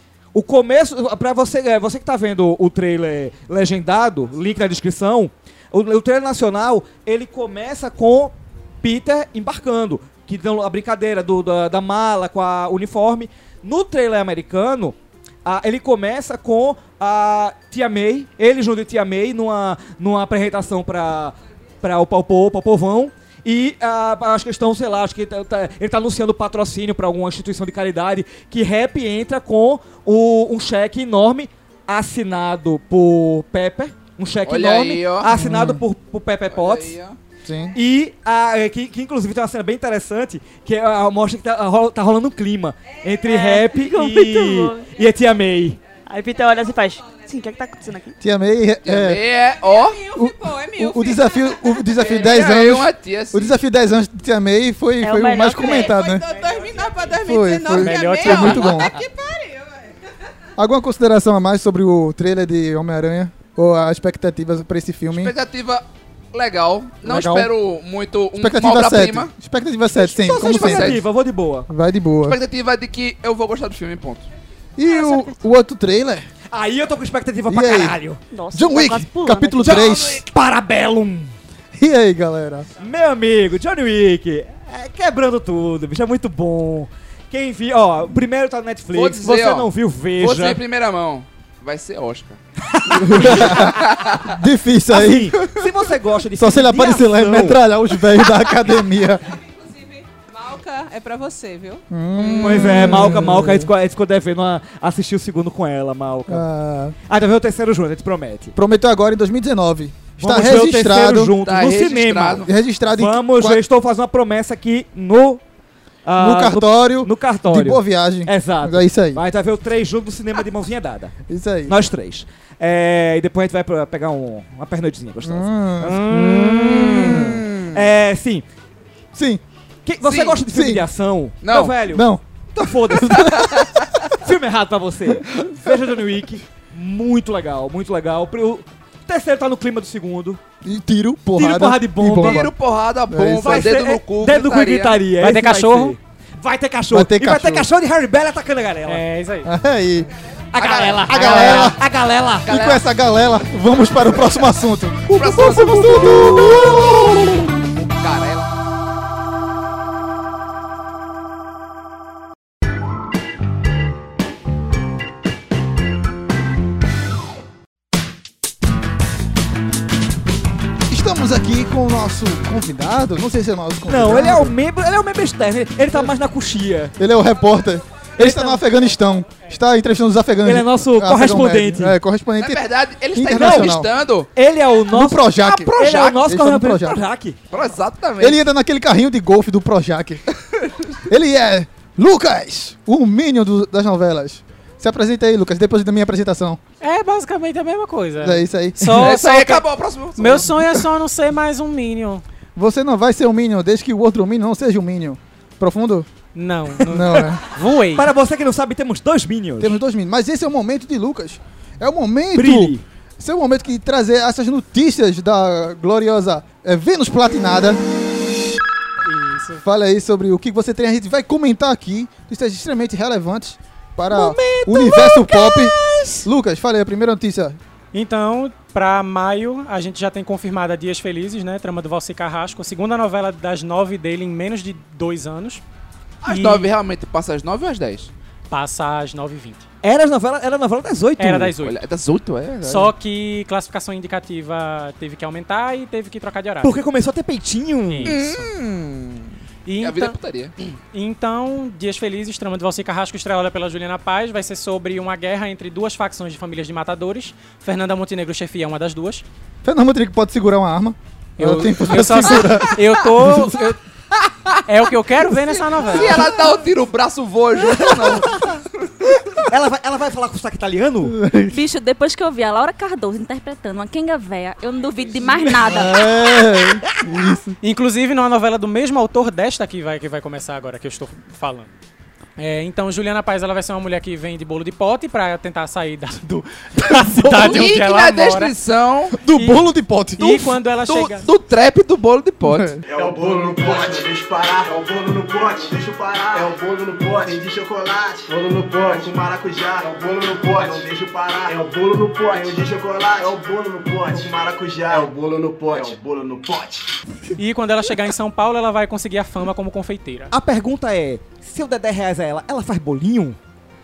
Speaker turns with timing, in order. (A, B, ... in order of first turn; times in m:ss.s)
0:00.3-0:37.0 A
0:34.4-0:35.3 B
0:35.3-0:35.8 C
0:36.5-0:37.2 B
0:37.4-0:37.8 C
0:37.7-0:45.8 A
0:43.2-0:45.0 D
0:46.1-0:48.2 D
0:48.2-0:49.2 C
0:48.8-0:50.0 B
0:49.4-0:52.2 E
0:50.1-0:56.3 C
0:52.0-0:53.6 B
0:55.0-0:56.1 D
0:55.6-1:00.0 E
0:57.2-0:58.9 C
0:57.8-0:58.8 F
0:58.4-0:58.8 B
1:00.6-1:05.3 C
1:05.1-1:09.3 B
1:07.0-1:07.5 C
1:08.4-1:11.0 C
1:10.0-1:11.7 A
1:10.2-1:11.0 B
1:11.7-1:12.4 C
1:12.2-1:14.3 B
1:14.8-1:16.3 C
1:14.8-1:15.3 D
1:16.5-1:18.2 A
1:17.5-1:18.0 C
1:18.3-1:19.8 D
1:18.5-1:20.2 C
1:19.6-1:21.3 A
1:19.6-1:20.2 B
1:21.8-1:22.7 C
1:22.8-1:30.6 A
1:28.9-1:34.4 B
1:32.9-1:33.7 A
1:33.0-1:35.4 C
1:34.9-1:37.6 A
1:36.4-1:39.2 C
1:39.3-1:41.8 E
1:41.9-1:43.7 C
1:42.2-1:43.2 B
1:42.4-1:46.5 A
1:46.3-1:47.0 C
1:47.1-1:48.6 A
1:48.6-1:51.3 C
1:50.2-1:55.4 A
1:51.4-1:52.5 B
1:52.4-1:53.6 C
1:56.0-2:01.2 A
1:56.2-1:59.2 C
2:01.3-2:01.8 C
2:01.7-2:08.4 A
2:05.2-2:07.4 C
2:07.1-2:07.8 B
2:09.1-2:09.4 C
2:09.8-2:13.5 A
2:10.0-2:10.4 B
2:10.4-2:10.9 C
2:11.4-2:11.8 B
2:11.9-2:12.2 C
2:12.9-2:13.7 C
2:13.2-2:13.9 B
2:14.2-2:20.4 A
2:20.6-2:22.5 C
2:21.3-2:22.5 A
2:22.1-2:25.0 B
2:23.1-2:23.8 C
2:23.4-2:29.0 A
2:25.2-2:26.0 F
2:26.9-2:27.7 C
2:28.9-2:29.5 F
2:29.4-2:30.1 C
2:30.5-2:32.5 A
2:30.6-2:31.7 B
2:31.1-2:31.8 C
2:31.2-2:31.7 F
2:32.4-2:32.9 B
2:32.5-2:37.5 C
2:35.1-2:38.5 B
2:50.9-2:54.6 C
2:53.9-2:56.9 A
2:57.0-3:03.9 C
2:58.2-2:58.6 A
3:00.4-3:02.0 A
3:02.4-3:04.3 B
3:03.3-3:03.7 A
3:04.4-3:07.4 A
3:04.9-3:07.0 C
3:05.4-3:06.2 B
3:07.5-3:08.4 B
3:08.2-3:10.2 C
3:11.1-3:16.6 C
3:16.8-3:19.6 F
3:18.2-3:19.1 C
3:19.0-3:20.8 B
3:20.2-3:22.2 F
3:22.6-3:26.1 C
3:26.4-3:28.1 F
3:26.8-3:27.4 C
3:28.0-3:29.8 A
3:29.6-3:37.8 C
3:32.4-3:32.8 A
3:39.0-3:39.6 F
3:39.6-3:47.6 C
3:44.1-3:46.3 A
3:47.9-3:55.6 F
3:56.2-3:58.1 B
3:56.2-3:56.7 F
3:58.5-3:59.6 F
3:59.8-4:01.5 A
4:01.2-4:01.8 F
4:01.6-4:02.9 B
4:02.6-4:06.8 F
4:06.6-4:08.2 A
4:07.9-4:08.5 F
4:08.1-4:10.5 B
4:09.7-4:10.2 F
4:10.9-4:19.2 F
4:19.6-4:23.6 C
4:21.4-4:23.8 F
4:24.2-4:24.6 B
4:24.6-4:26.2 F
4:25.8-4:29.1 B
4:27.9-4:28.6 A
4:29.5-4:31.2 A
4:31.0-4:31.6 C
4:31.5-4:36.1 G
4:35.3-4:36.0 A
4:35.6-4:37.6 C
4:37.6-4:41.7 F
4:42.4-4:48.5 F
4:46.8-4:47.6 C
4:47.4-4:49.2 B
4:49.1-4:50.6 C
4:49.3-4:51.3 F
4:50.9-4:52.8 B
4:52.4-4:52.8 C
4:52.8-5:06.9 H
5:07.4-5:10.3 F
5:10.3-5:13.4 A